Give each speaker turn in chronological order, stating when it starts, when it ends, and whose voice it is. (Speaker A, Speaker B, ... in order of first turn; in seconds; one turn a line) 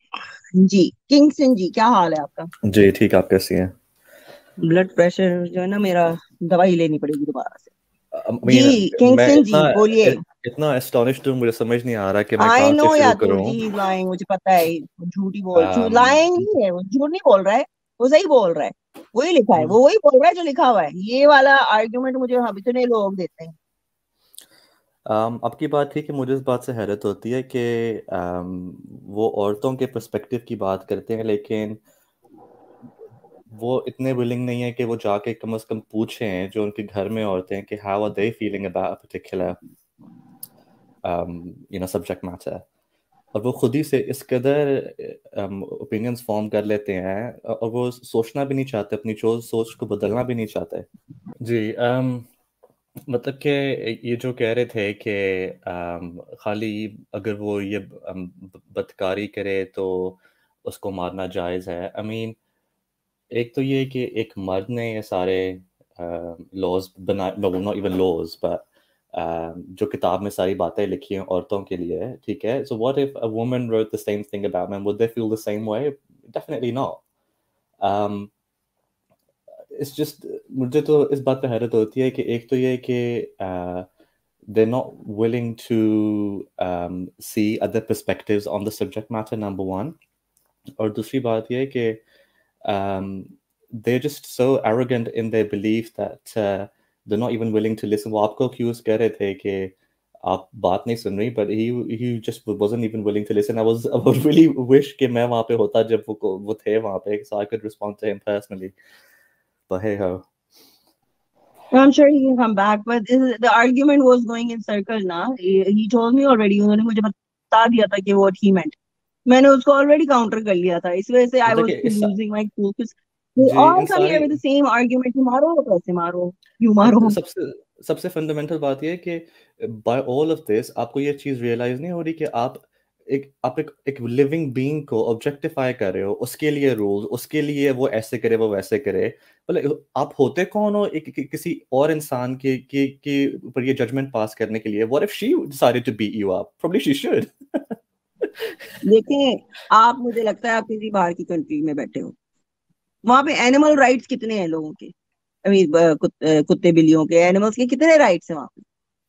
Speaker A: 0.5-2.5
Speaker B: 2.6-3.7
Speaker A: 4.6-7.7
Speaker B: 8.1-13.6
Speaker A: 8.4-10.2
Speaker A: 12.4-23.6
Speaker B: 15.5-16.4
Speaker B: 25.1-31.8
Speaker B: 33.5-39.6
Speaker B: 41.0-42.6
Speaker B: 43.3-50.9
Speaker B: 51.4-52.3
Speaker B: 53.1-62.4
Speaker B: 63.3-77.0
Speaker B: 77.8-78.3
Speaker B: 79.7-83.8
Speaker B: 84.5-90.0
Speaker B: 90.8-92.0
Speaker B: 92.7-108.8
Speaker B: 109.7-110.2
Speaker A: 111.7-127.2
Speaker B: 121.4-122.1
Speaker B: 123.4-124.4
Speaker B: 126.8-148.3
Speaker A: 148.8-152.1
Speaker A: 153.0-154.9
Speaker A: 155.4-158.6